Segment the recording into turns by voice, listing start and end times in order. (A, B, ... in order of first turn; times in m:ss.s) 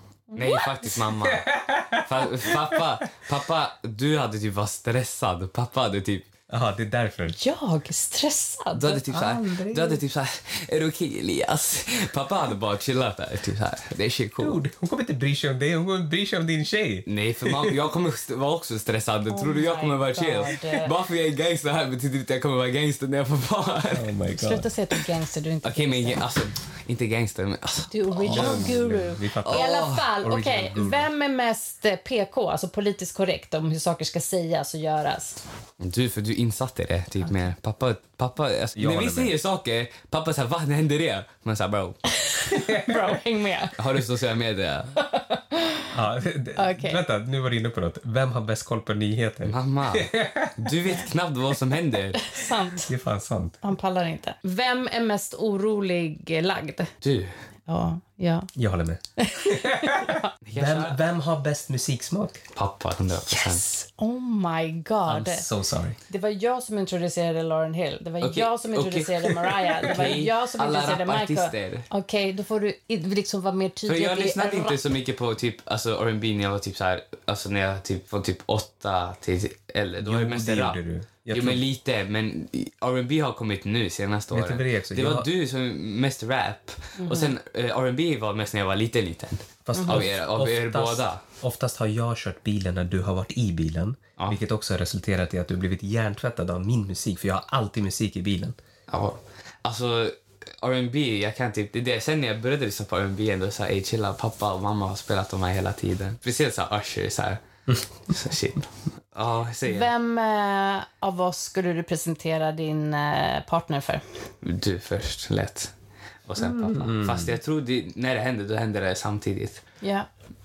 0:00.3-0:00.7 A
0:00.3-0:06.2 B
0:01.2-0:02.8 C
0:06.5-0:07.4 C
0:07.3-0:09.0 A
0:08.7-0:14.6 B
0:09.1-0:10.0 C
0:14.4-0:17.8 C
0:17.1-0:24.1 B
0:19.3-0:20.9 A
0:23.9-0:24.7 C
0:24.4-0:26.2 A
0:25.6-0:28.8 B
0:27.9-0:35.4 A
0:28.3-0:31.1 C
0:29.4-0:30.1 B
0:35.8-0:42.0 B
0:38.8-0:39.3 C
0:42.1-0:43.8 A
0:42.5-0:43.1 C
0:43.8-0:45.0 B
0:45.0-0:45.9 A
0:45.9-0:50.8 C
0:46.6-0:47.0 A
0:49.4-0:52.3 B
0:52.2-0:52.9 A
0:52.8-0:53.6 C
0:53.6-0:56.9 A
0:57.0-0:57.3 B
0:57.7-0:58.5 A
0:58.6-1:02.4 C
0:59.2-1:00.3 A
1:00.4-1:01.0 B
1:02.6-1:03.6 B
1:03.3-1:03.8 C
1:04.0-1:05.4 A
1:05.1-1:06.0 C
1:06.1-1:14.8 A
1:08.2-1:11.9 B
1:09.8-1:10.2 C
1:13.9-1:20.8 B
1:20.0-1:21.6 C
1:21.3-1:31.2 B
1:24.3-1:25.3 C
1:27.0-1:27.3 A
1:29.6-1:38.6 C
1:29.7-1:30.0 A
1:38.9-1:47.4 B
1:48.0-1:49.9 B
1:49.7-1:54.0 A
1:54.4-1:55.7 B
1:56.3-1:59.6 B
1:56.4-1:56.7 A
1:56.6-1:57.4 C
1:59.8-2:00.1 A